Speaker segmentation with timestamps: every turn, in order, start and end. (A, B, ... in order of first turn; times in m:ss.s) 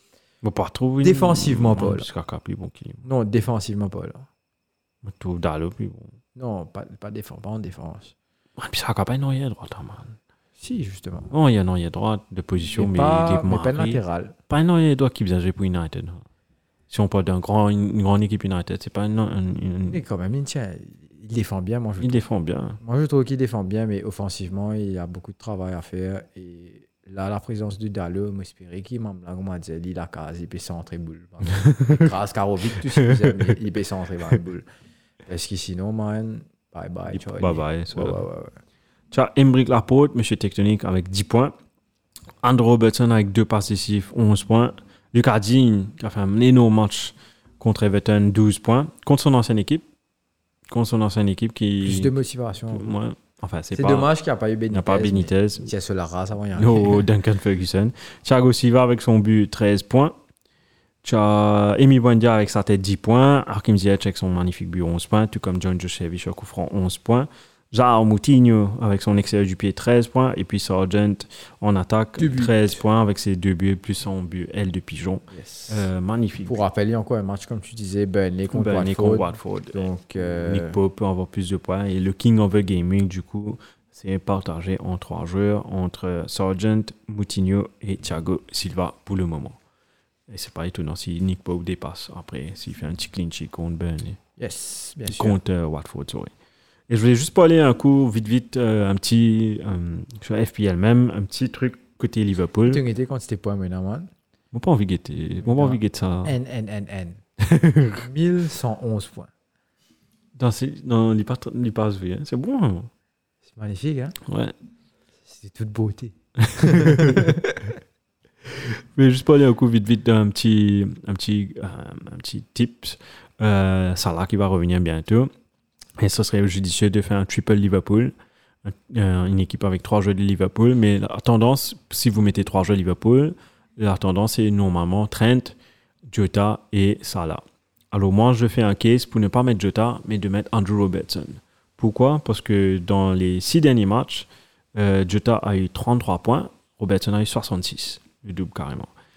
0:00.4-0:03.0 A
0:01.0-0:02.1 B
0:03.0-0:04.3 B
0:05.0-0:06.1 A
0:06.4-0:08.1 B
0:08.6-0:10.2 A
0:10.6-0:11.3 B
0:11.3-0:16.2 A
0:12.8-0:14.4 B
0:16.9-0:20.0 A
0:19.9-0:22.2 B
0:22.0-0:22.8 A
0:22.8-0:34.7 B
0:31.6-0:32.1 A
0:32.8-0:33.6 A
0:35.3-0:38.6 B
0:37.1-0:38.2 A
0:39.1-0:41.6 A
0:42.4-0:49.9 A
0:50.7-0:52.1 A
0:51.8-0:53.0 B
0:52.7-0:54.1 A
0:53.7-0:57.1 B
0:54.7-0:55.7 A
0:56.6-1:00.2 A
1:01.0-1:16.6 A
1:12.2-1:12.8 B
1:15.3-1:15.9 B
1:16.4-1:20.8 B
1:18.5-1:29.6 A
1:30.3-1:34.2 A
1:34.4-1:35.4 B
1:35.1-1:36.3 A
1:36.9-1:42.8 A
1:42.7-1:44.1 B
1:44.5-1:46.4 A
1:45.4-1:47.2 B
1:47.4-1:48.0 A
1:48.0-1:49.3 B
1:50.4-1:52.9 A
1:53.5-1:54.2 B
1:54.3-1:54.6 A
1:55.2-1:57.8 B
1:56.4-1:57.4 A
1:58.4-2:05.3 A
2:06.0-2:15.6 A
2:16.1-2:28.9 A